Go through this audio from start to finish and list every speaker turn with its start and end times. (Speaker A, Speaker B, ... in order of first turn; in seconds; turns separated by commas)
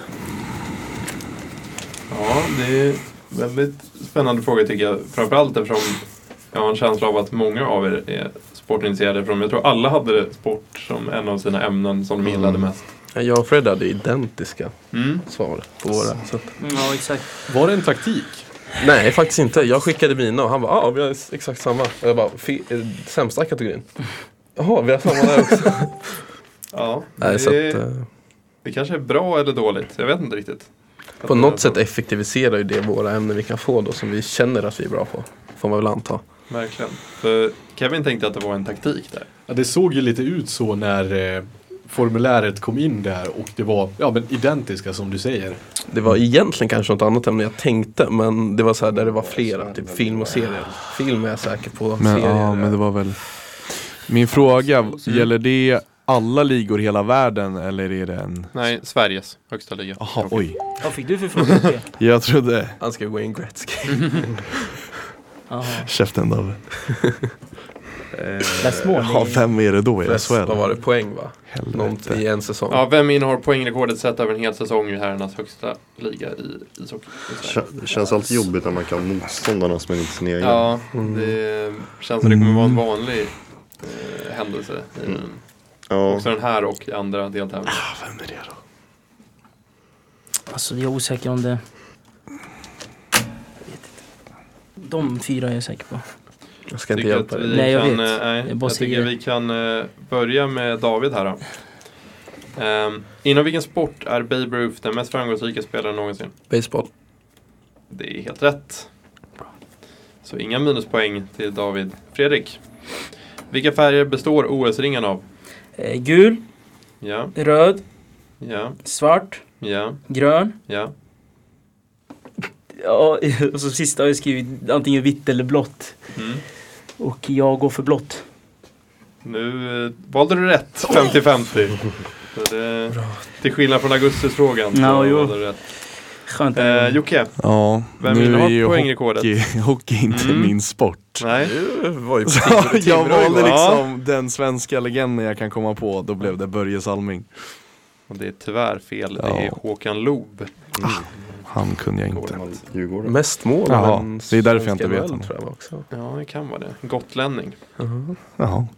Speaker A: 2.1-12.8, Speaker B: 12.2-12.7, Speaker C: 13.1-16.5, Speaker A: 14.9-15.2, Speaker D: 16.6-17.2, Speaker E: 17.5-18.4, Speaker C: 18.8-23.9, Speaker C: 24.6-26.1, Speaker A: 26.7-27.8, Speaker C: 27.2-28.1, Speaker A: 28.6-31.8, Speaker C: 31.2-36.2, Speaker A: 36.5-39.3, Speaker E: 39.5-45.6, Speaker C: 45.9-52.8, Speaker B: 48.8-50.8, Speaker F: 52.0-58.5, Speaker D: 54.3-55.3, Speaker A: 55.0-55.3, Speaker A: 58.5-60.7, Speaker F: 60.0-60.8, Speaker D: 60.8-61.9, Speaker A: 61.4-61.7, Speaker F: 62.0-62.8, Speaker C: 62.8-64.5, Speaker D: 65.5-65.9, Speaker F: 65.8-66.6, Speaker C: 66.8-67.2, Speaker F: 68.1-70.6, Speaker D: 68.6-69.8, Speaker C: 70.0-72.8, Speaker F: 71.4-72.2, Speaker A: 72.7-78.0, Speaker B: 77.4-80.7, Speaker A: 80.4-85.4, Speaker C: 80.9-81.4, Speaker F: 82.2-82.8, Speaker B: 85.9-86.3, Speaker A: 86.0-87.8, Speaker F: 87.7-88.5, Speaker D: 90.5-91.6, Speaker D: 93.7-94.0, Speaker D: 94.8-96.0, Speaker C: 96.7-97.7, Speaker A: 96.9-101.4, Speaker D: 97.5-99.1, Speaker A: 102.5-106.3, Speaker C: 106.5-106.9, Speaker A: 107.9-108.9, Speaker A: 110.2-112.6, Speaker A: 113.5-115.2, Speaker D: 115.8-116.4, Speaker A: 117.0-117.3, Speaker D: 117.3-117.8, Speaker A: 118.4-118.8, Speaker D: 118.8-119.4, Speaker A: 119.6-120.0, Speaker D: 120.1-120.5, Speaker A: 120.7-120.9, Speaker D: 122.7-126.1, Speaker A: 126.2-126.4, Speaker D: 127.0-128.2, Speaker A: 129.2-135.6, Speaker C: 132.9-133.2, Speaker D: 134.7-135.6, Speaker D: 136.3-137.0, Speaker A: 136.5-139.4, Speaker F: 137.4-141.3, Speaker A: 140.1-141.5, Speaker C: 141.3-143.7, Speaker F: 142.2-147.3, Speaker A: 143.4-143.8, Speaker A: 148.1-150.6, Speaker F: 149.2-149.6, Speaker B: 150.8-151.1, Speaker F: 150.8-152.4, Speaker A: 152.1-152.4, Speaker B: 152.3-153.2, Speaker C: 153.0-155.9, Speaker F: 153.7-155.3, Speaker A: 155.9-157.6, Speaker C: 157.8-158.2, Speaker F: 158.4-158.7